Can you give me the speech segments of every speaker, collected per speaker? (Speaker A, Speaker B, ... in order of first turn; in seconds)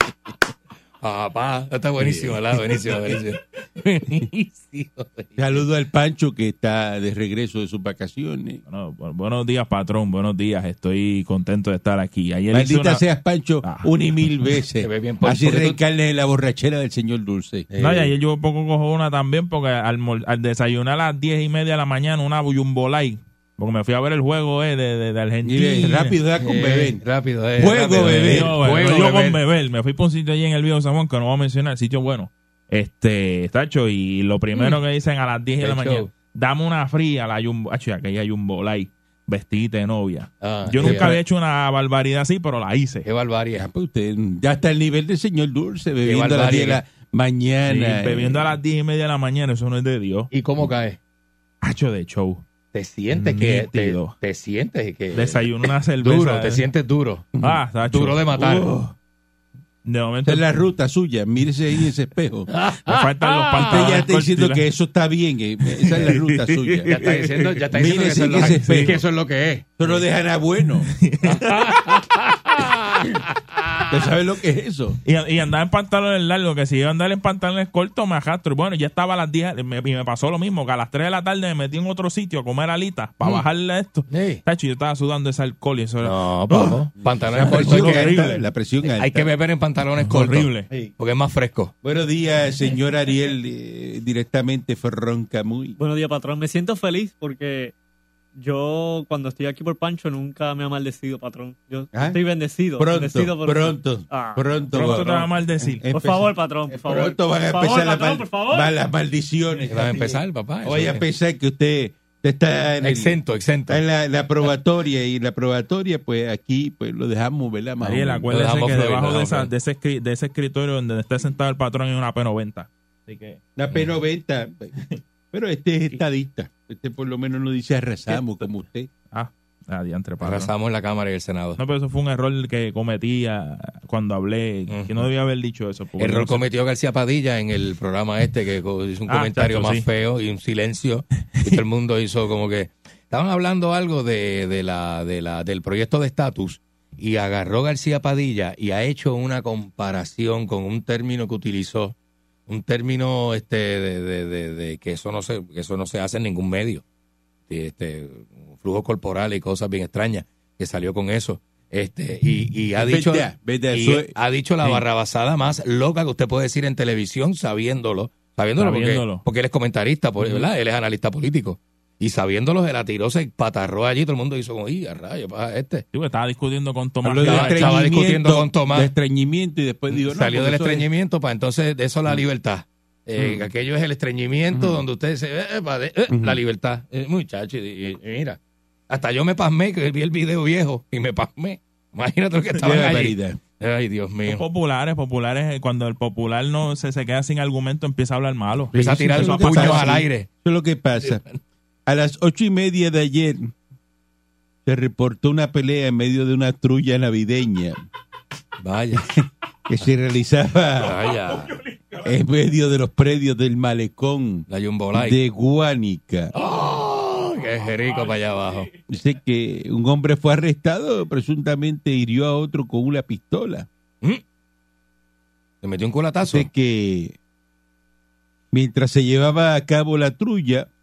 Speaker A: 1.0-5.7, 14.8-15.8, 26.4-29.4, 35.6-36.1, 40.4-41.1, 43.0-43.6, 46.0-46.8, 50.3-51.0, 52.7-57.3, 57.9-58.7, 62.5-63.7, 66.9-70.0, 71.2-73.9, 84.1-84.4, 86.0-88.3, 88.8-91.7, 109.7-111.0, 112.8-113.8, 118.3-119.5, 130.2-131.6, 134.7-135.0, 136.0-151.9, 152.5-156.8, 157.5-175.8, 177.2-178.9, 179.9-188.4, 188.9-194.4, 198.7-200.3, 201.0-201.3, 208.6-209.1, 210.8-211.6, 214.5-215.2, 216.3-218.7, 225.6-226.5
Speaker B: 2.0-3.2, 5.4-8.6, 12.5-18.1, 25.4-27.0, 27.6-29.0, 40.8-41.2, 43.6-48.5, 58.5-58.9, 60.2-62.5, 63.7-66.9, 67.8-69.0, 69.8-70.9, 73.9-75.0, 87.3-89.3, 91.8-95.8, 101.9-102.2, 102.8-113.2, 113.7-118.2, 123.5-124.8, 125.3-128.9, 162.8-164.8, 177.0-180.8, 183.2-183.5, 184.5-184.8, 186.1-186.4, 192.6-193.4, 198.7-201.2, 201.8-203.5, 204.6-207.8, 209.0-211.0, 212.0-216.3, 218.9-223.7, 226.3-227.2, 228.5-230.7
Speaker C: 8.7-13.0, 13.6-14.6, 17.8-26.2, 28.0-43.0, 47.6-50.3, 51.6-52.4, 53.1-54.1, 55.1-56.6, 57.4-58.7, 59.8-60.5, 62.8-64.7, 65.9-67.6, 68.2-68.9, 71.0-71.7, 75.0-86.7, 87.3-88.5, 90.0-90.7, 104.7-105.8, 117.8-123.4, 128.1-128.5, 129.1-130.5, 131.6-136.4, 139.1-139.8, 168.6-169.2, 175.9-177.8, 194.3-200.0
Speaker D: 95.8-97.7, 98.3-104.6, 105.9-108.7